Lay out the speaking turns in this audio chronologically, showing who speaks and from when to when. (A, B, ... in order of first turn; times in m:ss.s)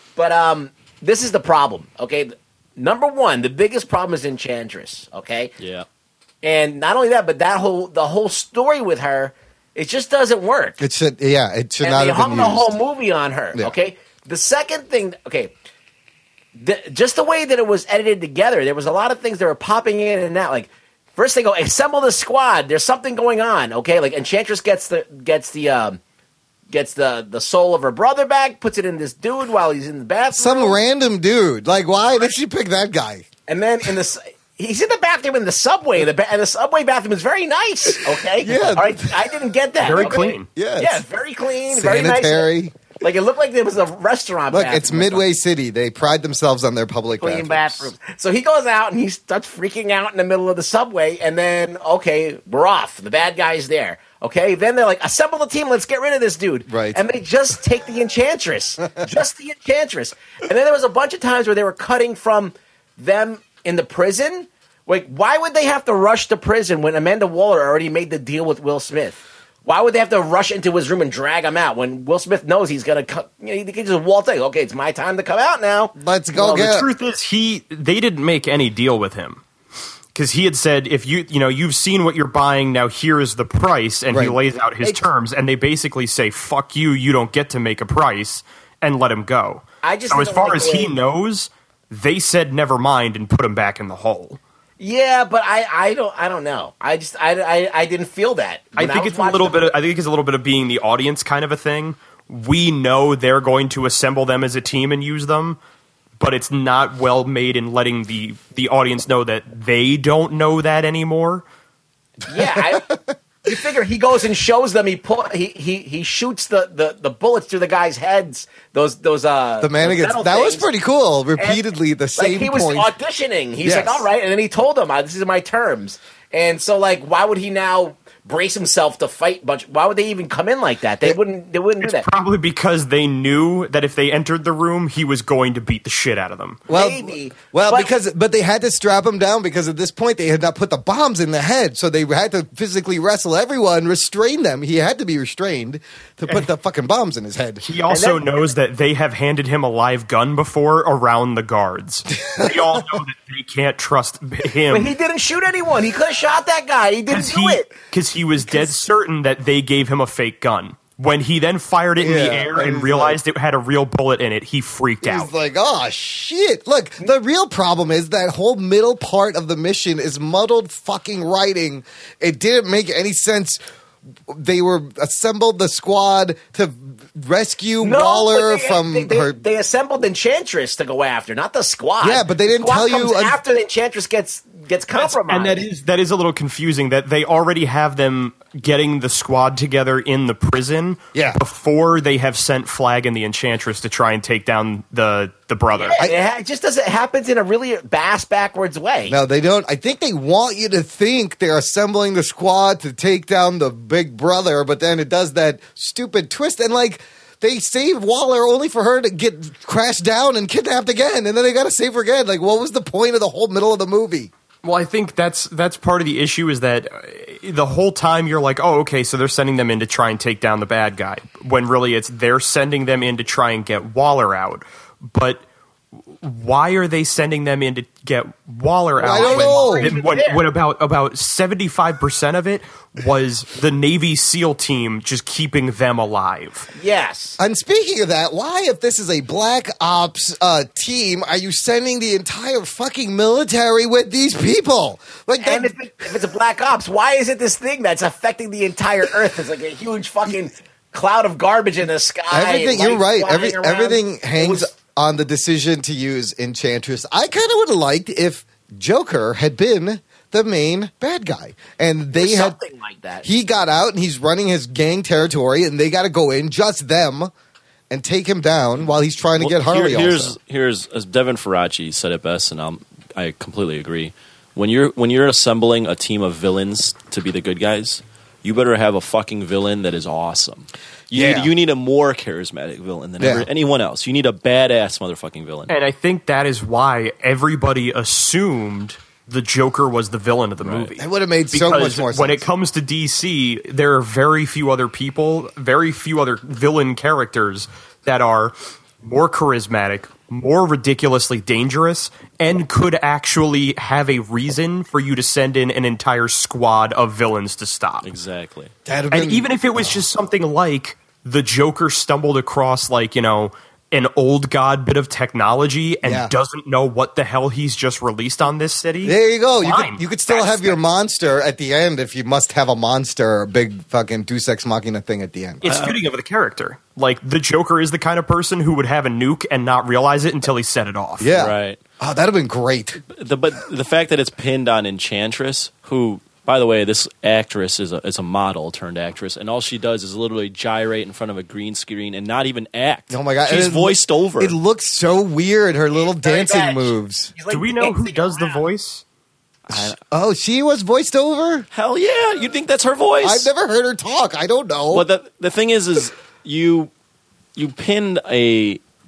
0:00.2-0:05.5 A
0:05.6-0:05.9 B
0:06.4-0:10.8 A
0:10.8-0:12.7 C
0:11.8-0:15.5 A
0:16.6-0:26.0 A
0:26.7-0:30.8 A
0:30.4-0:33.3 C
0:33.5-0:45.3 A
0:38.4-0:39.1 C
0:39.8-0:40.5 D
0:40.5-0:41.0 C
0:41.7-0:42.7 C
0:44.5-0:47.9 C
0:47.2-1:15.9 A
0:56.7-0:57.0 C
1:16.0-1:16.9 C
1:16.4-1:19.4 D
1:20.2-1:34.4 D
1:24.1-1:25.0 C
1:29.8-1:31.0 A
1:34.8-1:39.6 A
1:38.8-1:45.6 D
1:46.2-1:51.4 D
1:52.3-1:52.9 A
1:53.4-2:00.7 A
1:59.6-2:02.9 C
2:01.4-2:01.6 A
2:02.2-2:12.0 A
2:03.6-2:04.1 C
2:11.8-2:16.6 D
2:16.7-2:17.9 A
2:16.7-2:27.6 C
2:27.6-2:35.0 D
2:27.9-2:28.5 A
2:32.2-2:33.0 C
2:34.7-2:37.7 A
2:37.1-2:45.3 D
2:42.0-2:43.2 C
2:45.0-2:53.6 C
2:54.3-2:59.4 C
2:57.8-3:05.6 A
3:02.0-3:03.4 C
3:05.0-3:16.0 D
3:15.8-3:19.2 A
3:19.1-3:34.3 C
3:34.6-3:45.4 D
3:46.2-3:56.7 D
3:49.0-3:50.0 C
3:49.0-3:50.4 A
3:56.8-3:57.4 A
3:57.4-4:05.7 C
4:05.4-4:14.7 A
4:12.3-4:22.6 C
4:22.2-4:23.3 A
4:23.2-4:27.3 C
4:27.9-4:30.4 C
4:29.4-4:45.7 B
4:41.1-4:41.5 C
4:43.2-4:43.5 C
4:45.7-5:08.1 D
4:50.6-4:50.9 B
4:51.0-4:52.4 C
5:08.0-5:08.7 B
5:08.9-5:10.0 C
5:09.1-5:20.8 D
5:16.0-5:16.3 C
5:19.0-5:25.6 C
5:25.6-5:31.4 D
5:25.6-5:26.0 B
5:31.2-5:33.0 C
5:31.3-5:31.8 B
5:33.1-5:44.6 B
5:43.1-5:47.3 C
5:45.9-5:48.6 A
5:47.5-5:49.0 D
5:49.7-5:50.0 B
5:49.7-5:51.7 C
5:51.7-5:53.5 B
5:53.2-5:55.0 C
5:54.9-5:56.9 B
5:57.6-5:58.8 B